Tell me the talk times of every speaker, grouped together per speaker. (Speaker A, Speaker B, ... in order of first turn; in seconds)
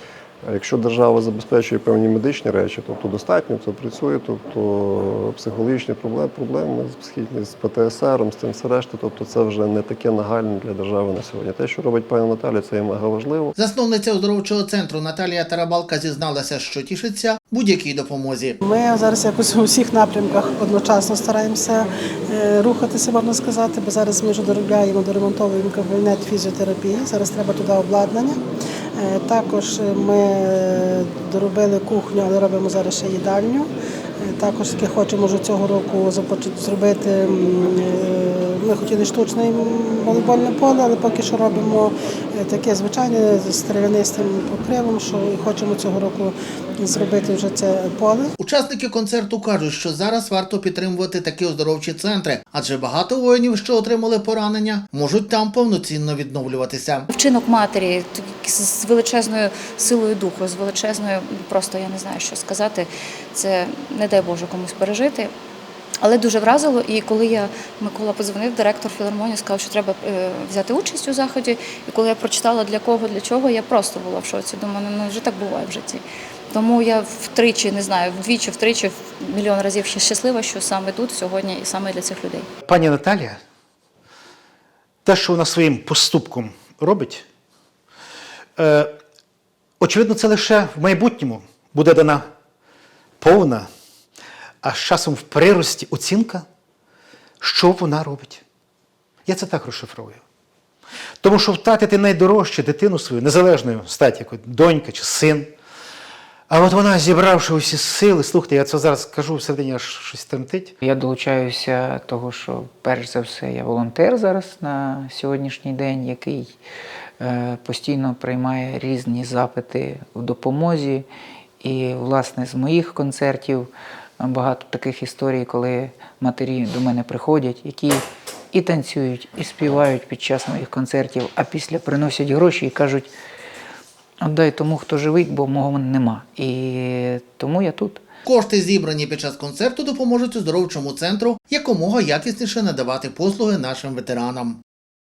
Speaker A: 0.4-13.5
Speaker B: 13.6-18.6, 48.4-57.1, 138.2-144.6
Speaker C: 18.6-28.4, 29.0-33.7, 34.2-48.3
Speaker D: 57.1-65.3, 66.0-82.5
Speaker E: 82.6-83.4, 85.0-87.2, 88.5-88.9, 89.8-92.3, 93.2-93.7, 94.6-96.5, 97.4-98.4, 99.2-100.2, 101.2-105.5, 106.5-110.7
Speaker F: 110.8-116.5, 117.2-121.0, 121.6-133.1, 134.2-138.0